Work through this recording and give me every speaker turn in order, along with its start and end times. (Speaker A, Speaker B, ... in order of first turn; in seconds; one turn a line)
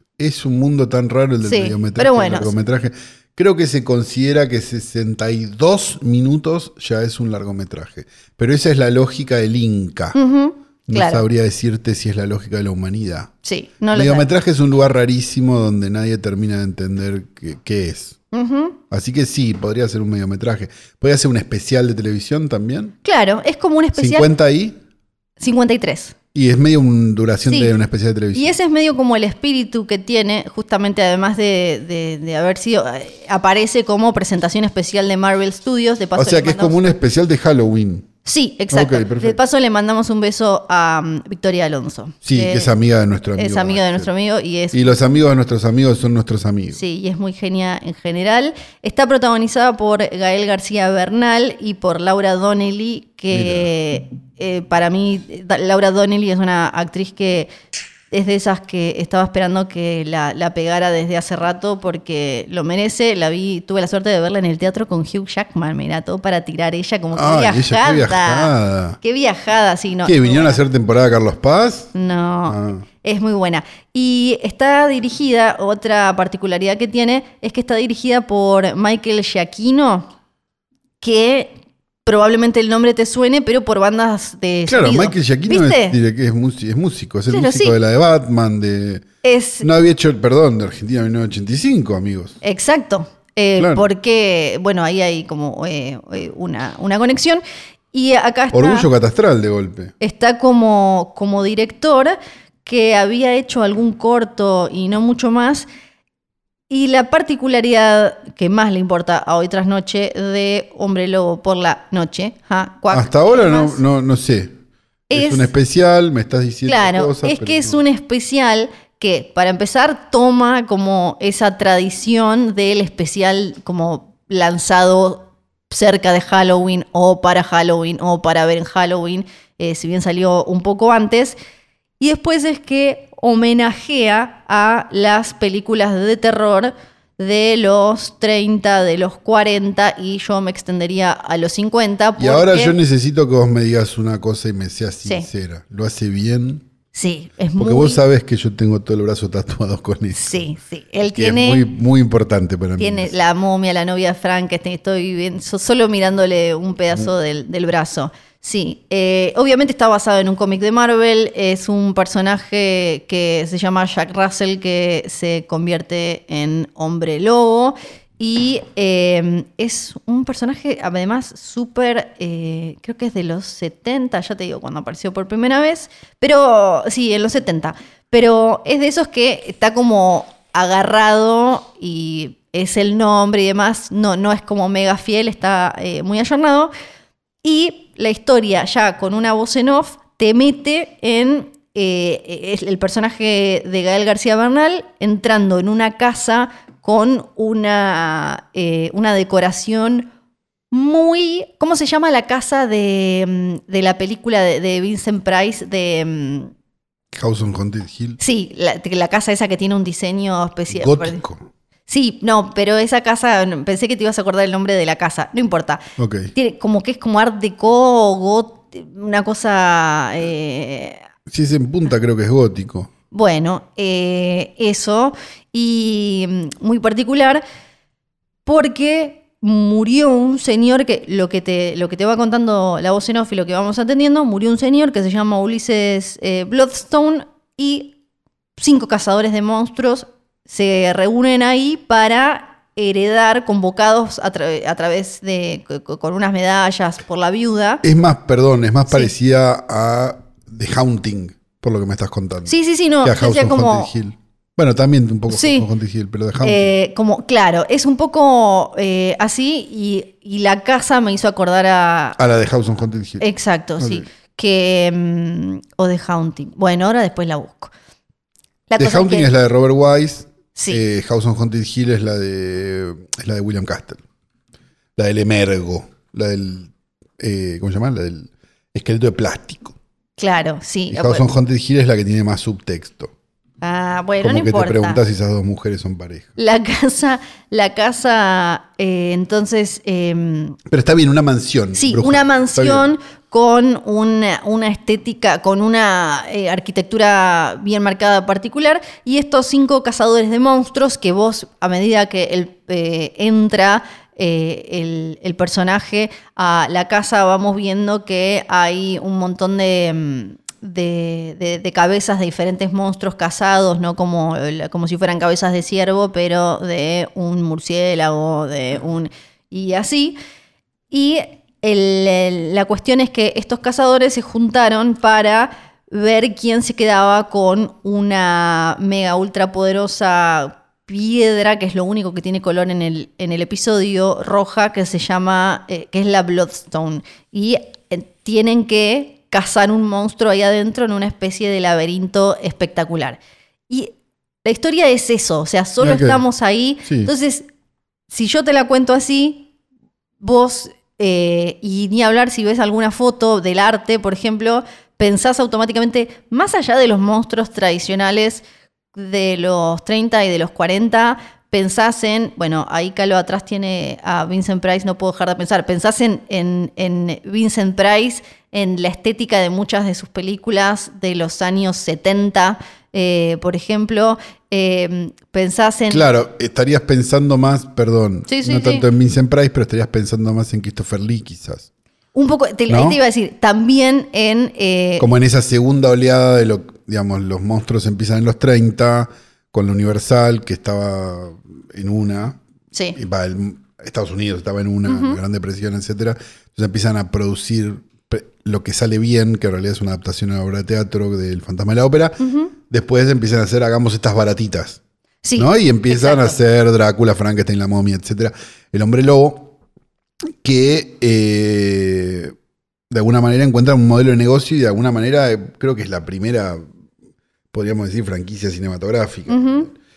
Speaker A: 0.2-10.2
Speaker B: 1.4-2.5
Speaker B: 10.1-11.2
Speaker A: 10.9-13.3
Speaker B: 13.4-14.3
Speaker A: 13.9-18.2
Speaker B: 18.3-18.8
Speaker A: 18.9-22.9
Speaker B: 23.0-24.3
Speaker A: 24.0-24.8
Speaker B: 25.4-26.1
Speaker A: 26.3-28.6
Speaker B: 27.5-27.7
Speaker B: 28.3-37.0
Speaker A: 36.2-38.1
Speaker B: 38.2-42.7
Speaker A: 38.7-39.4
Speaker A: 42.2-44.1
Speaker B: 43.4-45.0
Speaker A: 44.7-46.8
Speaker B: 46.7-57.5
Speaker A: 53.3-53.7
Speaker B: 58.1-70.6
Speaker A: 67.1-69.0
Speaker A: 70.1-71.9
Speaker B: 71.9-80.1
Speaker A: 72.5-72.8
Speaker B: 81.0-81.5
Speaker B: 82.1-86.0
Speaker A: 84.7-89.1
Speaker B: 87.3-87.8
Speaker B: 89.2-89.7
Speaker A: 89.6-92.4
Speaker B: 92.4-97.4
Speaker A: 93.6-93.9
Speaker B: 97.9-98.9
Speaker A: 98.5-99.9
Speaker B: 100.0-105.7
Speaker B: 106.7-113.8
Speaker A: 112.9-114.6
Speaker B: 115.1-115.5
Speaker A: 115.1-117.8
Speaker B: 116.7-131.4
Speaker B: 132.0-142.8
Speaker A: 142.2-146.7
Speaker B: 146.9-148.0
Speaker A: 147.6-150.5
Speaker B: 150.1-151.7
Speaker A: 151.0-153.1
Speaker B: 152.8-186.7
Speaker B: 187.4-200.1
Speaker B: 200.7-206.5
Speaker A: 207.1-208.2
Speaker B: 208.2-211.2
Speaker A: 210.7-211.4
Speaker B: 211.9-221.0
Speaker A: 216.0-216.3
Speaker A: 221.3-222.9
Speaker B: 223.1-227.4
Speaker B: 228.5-238.0
Speaker B: 238.6-247.8
Speaker A: 247.8-256.7
Speaker B: 252.5-253.9
Speaker B: 255.3-255.7
Speaker B: 256.4-262.2
Speaker A: 262.2-263.2
Speaker B: 263.2-267.7
Speaker A: 263.8-264.1
Speaker B: 268.7-269.3
Speaker A: 268.8-274.0
Speaker B: 270.6-270.8
Speaker A: 275.0-279.8
Speaker B: 280.2-281.3
Speaker A: 280.9-283.1
Speaker B: 283.6-285.0
Speaker A: 284.2-286.3
Speaker B: 286.4-290.6
Speaker A: 290.7-292.9
Speaker B: 291.8-320.2
Speaker B: 320.9-343.9
Speaker B: 344.4-347.4
Speaker A: 345.8-346.2
Speaker A: 346.9-347.1
Speaker B: 348.1-349.5
Speaker B: 350.2-376.1
Speaker A: 375.9-381.7
Speaker B: 378.3-378.9
Speaker B: 382.1-385.1
Speaker A: 382.7-383.0
Speaker A: 385.0-392.4
Speaker B: 392.7-393.0
Speaker A: 392.9-404.8
Speaker B: 394.9-395.2
Speaker B: 402.2-402.5
Speaker B: 405.2-406.4
Speaker A: 405.4-409.6
Speaker A: 410.4-412.3
Speaker A: 412.9-416.6
Speaker A: 417.5-419.7
Speaker B: 419.3-419.7